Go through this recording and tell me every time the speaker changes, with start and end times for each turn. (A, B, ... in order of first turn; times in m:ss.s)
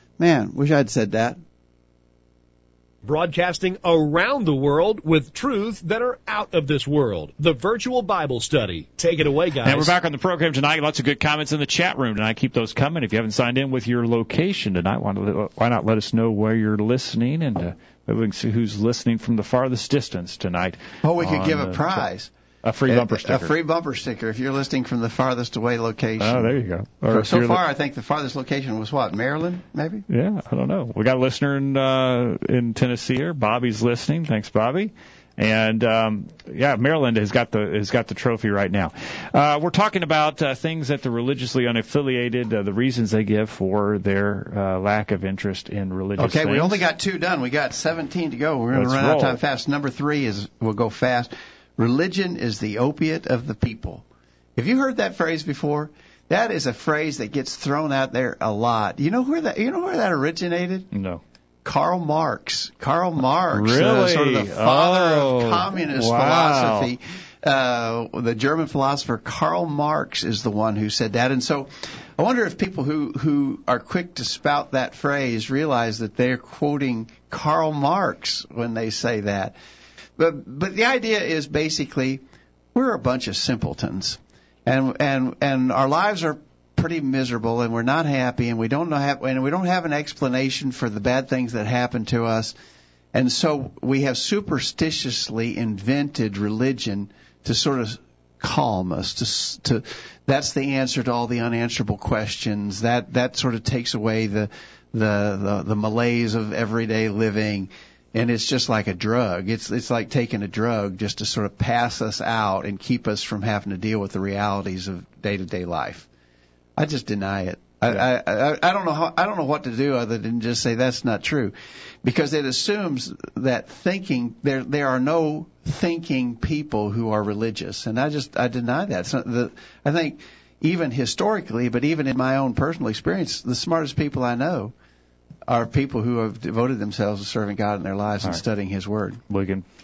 0:00.2-0:01.4 A
0:03.0-0:09.9 B
0:09.6-0:22.0 C
0:21.0-0:22.3 A
0:22.6-0:23.5 C
0:22.9-0:26.5 A
0:26.2-0:27.6 C
0:27.1-0:30.0 A
0:30.1-0:46.8 C
0:46.2-0:54.0 A
0:48.7-0:49.4 C
0:54.6-1:00.9 A
1:00.9-1:01.2 C
1:01.6-1:19.5 A
1:03.5-1:06.9 C
1:20.2-1:22.2 A
1:22.7-1:32.5 A
1:33.1-1:56.1 A
1:56.8-2:14.7 A
2:15.5-2:19.2 A
2:19.3-2:19.6 C